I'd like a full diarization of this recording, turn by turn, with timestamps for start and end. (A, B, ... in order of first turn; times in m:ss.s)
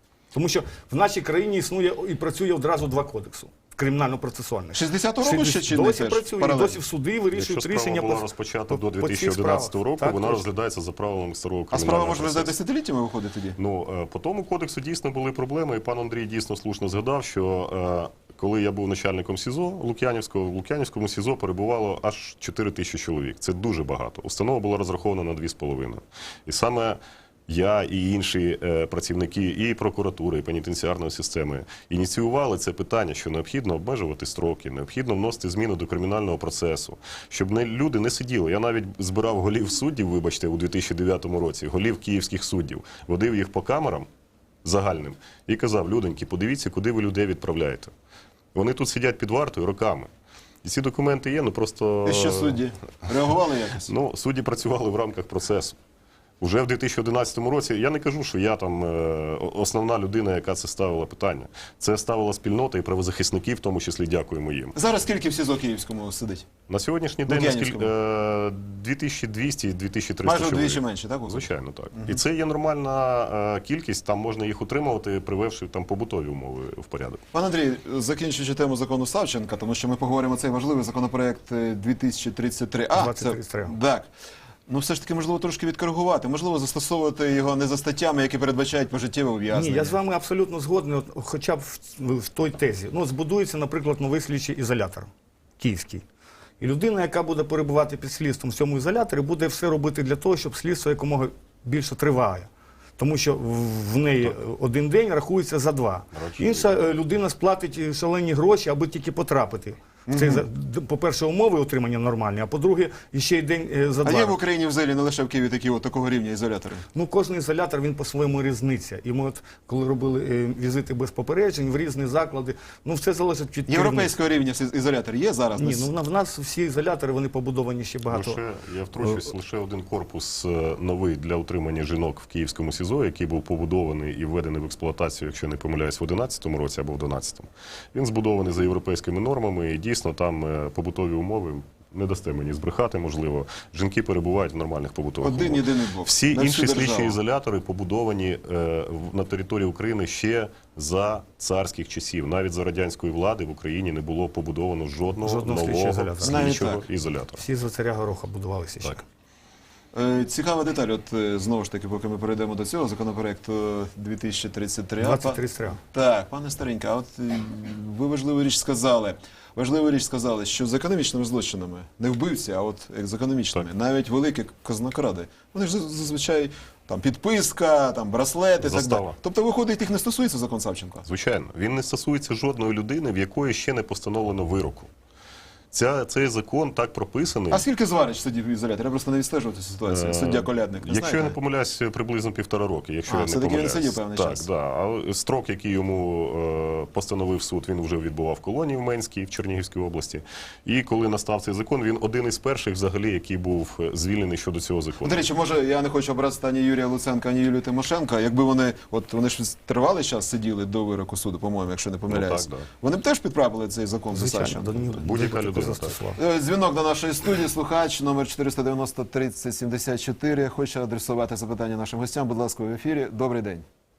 0:00.3-0:10.5 A
0:04.7-0:06.8 B
0:07.3-0:12.6 C
0:11.7-0:13.6 B
0:13.6-0:44.1 C
0:44.6-0:47.9 C
0:48.6-0:50.1 C
0:50.6-0:52.6 C
0:52.0-0:53.9 B
0:53.9-0:55.8 C
0:56.4-1:04.8 C
1:04.8-1:06.5 B
1:06.7-1:17.2 C
1:07.2-1:07.9 B
1:10.2-1:12.2 B
1:17.3-1:24.1 B
1:22.9-1:23.8 A
1:24.7-1:30.0 B
1:29.5-1:36.0 A
1:36.6-1:54.4 A
1:46.1-1:46.7 C
1:50.1-1:50.4 B
1:54.0-1:56.8 B
1:56.9-2:04.1 A
2:03.7-2:05.9 B
2:05.6-2:08.4 A
2:08.1-2:37.4 C
2:09.0-2:09.3 A
2:25.2-2:27.2 B
2:35.2-2:36.5 A
2:36.2-2:36.8 B
2:37.4-2:39.0 A
2:39.9-2:45.4 B
2:45.0-2:45.8 A
2:45.9-3:01.0 B
2:58.6-2:59.2 C
3:01.0-3:04.9 C
3:05.7-3:07.7 C
3:07.5-3:11.4 B
3:09.9-3:25.3 C
3:13.1-3:14.5 B
3:25.0-3:34.8 B
3:32.1-3:32.7 C
3:34.1-3:36.2 A
3:34.9-3:36.0 C
3:36.2-3:43.6 B